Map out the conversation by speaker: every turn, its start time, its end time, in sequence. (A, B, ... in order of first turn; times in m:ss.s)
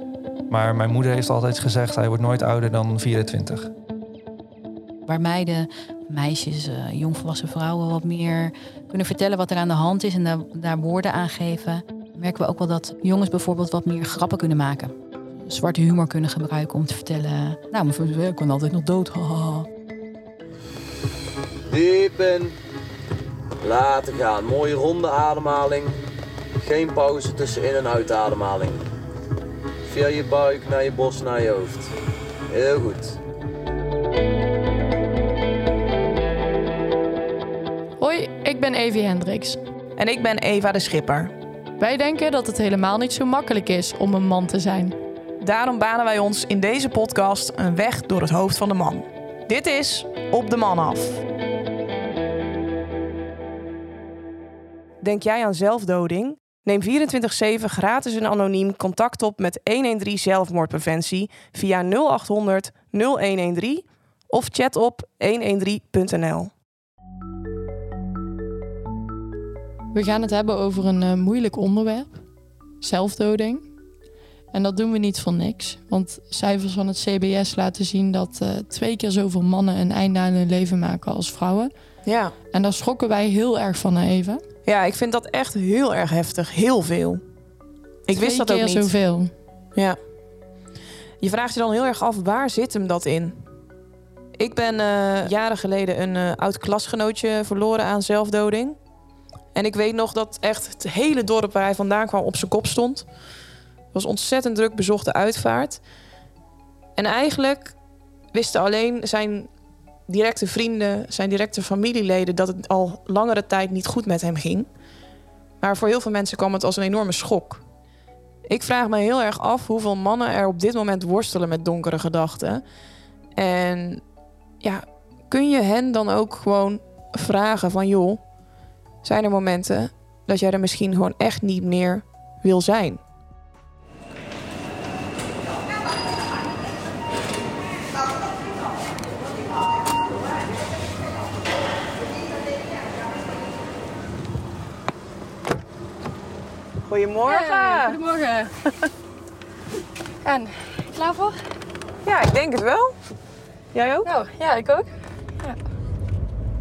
0:00.5-0:03.7 A
0:05.1-0:19.7 B
0:21.7-0:22.6 C
0:23.6-0:26.0 C
0:26.6-0:28.8 C
0:29.9-0:31.9 C
0:32.5-0:33.2 C
0:38.0-0:39.6 D
0:40.0-0:41.3 E
0:41.8-0:45.0 D
0:45.4-0:51.2 E
0:55.0-1:06.5 E
1:09.9-1:12.2 D
1:12.8-1:13.6 D
1:14.5-1:21.7 D
1:22.1-1:22.3 E
1:22.5-1:24.4 D
1:24.7-1:27.2 E
1:28.1-1:28.9 E
1:28.1-1:29.3 D
1:31.2-1:33.4 E
1:34.4-1:38.8 E
1:39.5-1:43.1 E
1:43.9-1:45.8 E
1:47.0-1:47.7 E
1:48.3-1:49.5 E
1:50.1-1:54.7 E
1:55.6-1:57.6 E
1:58.5-2:02.6 E
2:03.4-2:04.0 E
2:04.6-2:08.2 E
2:09.0-2:13.0 E
2:26.8-2:28.0 E
2:27.3-2:28.5 D
2:30.2-2:31.4 D
2:32.0-2:33.0 E
2:33.7-2:34.1 E
2:34.0-2:34.9 D